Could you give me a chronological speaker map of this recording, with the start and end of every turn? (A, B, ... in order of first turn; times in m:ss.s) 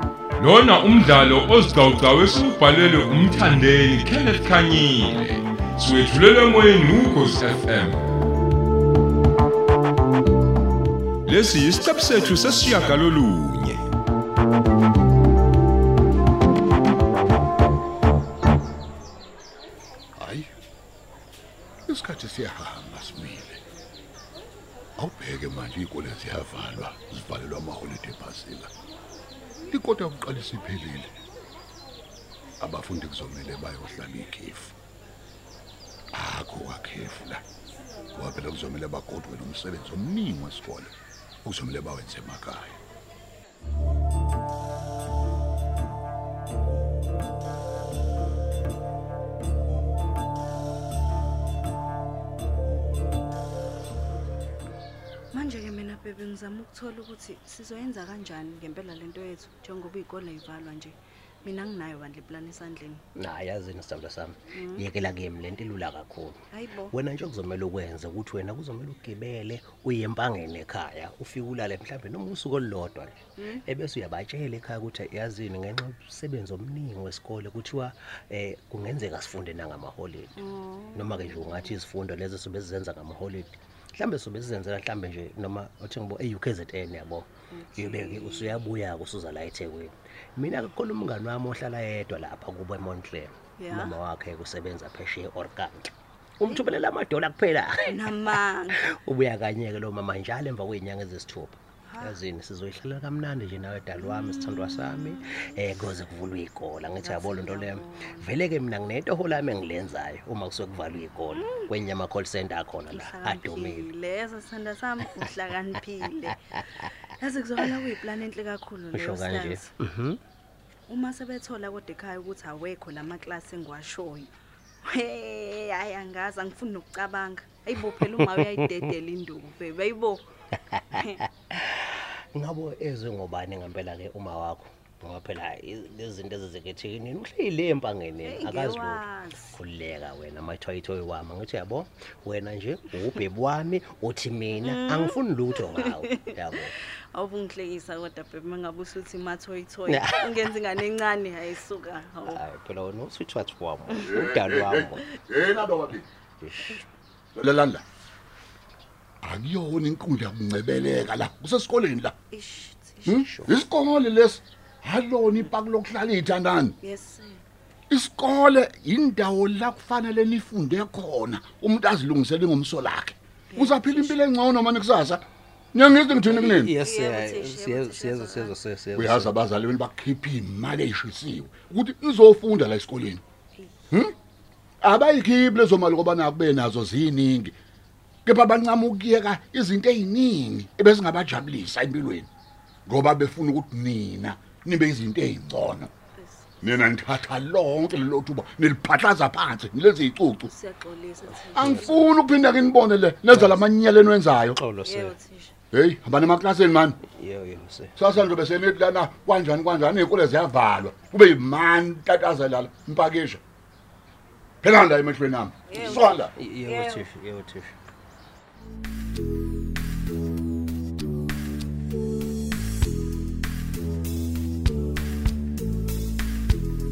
0:00.4-0:08.0 A
0:11.3-0:13.8 A
0:20.2-0:20.5 B
0:21.9-0:23.6 B
0:25.0-0:28.7 B
0:29.7-0:31.1 B
0:32.6-0:34.8 B
0:36.1-0:37.4 B
0:38.1-0:40.9 B
0:41.4-0:42.8 B
0:55.3-1:03.0 C
1:03.2-1:20.4 D
1:04.5-1:04.9 C
1:06.5-1:06.9 C
1:13.4-1:13.6 C
1:20.4-1:21.8 C
1:21.0-1:53.9 D
1:27.5-1:28.6 C
1:33.6-1:34.0 C
1:37.8-1:38.8 C
1:41.9-1:42.2 C
1:44.0-1:45.4 C
1:47.0-1:48.3 C
1:51.3-1:51.7 C
1:52.9-1:59.7 C
1:58.9-2:00.2 D
2:00.9-2:04.3 C
2:04.8-2:11.2 C
2:08.0-2:08.8 D
2:10.8-2:26.8 D
2:18.2-2:19.6 C
2:24.6-2:26.3 C
2:27.1-2:32.4 C
2:29.9-2:30.4 D
2:32.3-2:35.1 D
2:34.0-2:36.0 B
2:36.4-2:36.9 D
2:37.4-2:37.8 B
2:39.2-2:42.2 B
2:42.3-2:43.3 C
2:43.0-2:46.8 B
2:43.3-2:43.6 D
2:46.8-2:47.4 C
2:47.9-2:56.7 B
2:53.5-2:54.2 C
2:56.3-2:59.4 D
2:56.8-2:58.6 C
2:59.0-3:03.2 B
3:03.6-3:03.8 C
3:04.8-3:07.5 B
3:08.2-3:12.3 B
3:12.9-3:15.9 B
3:16.2-3:16.9 C
3:16.6-3:20.5 B
3:20.5-3:22.1 C
3:21.4-3:22.0 D
3:21.6-3:24.6 B
3:23.3-3:23.6 D
3:24.6-3:25.1 D
3:24.8-3:25.6 C
3:25.7-3:27.0 B
3:27.0-3:28.1 D
3:28.0-3:33.4 B
3:34.6-3:36.3 B
3:35.7-3:37.1 C
3:36.4-3:37.8 D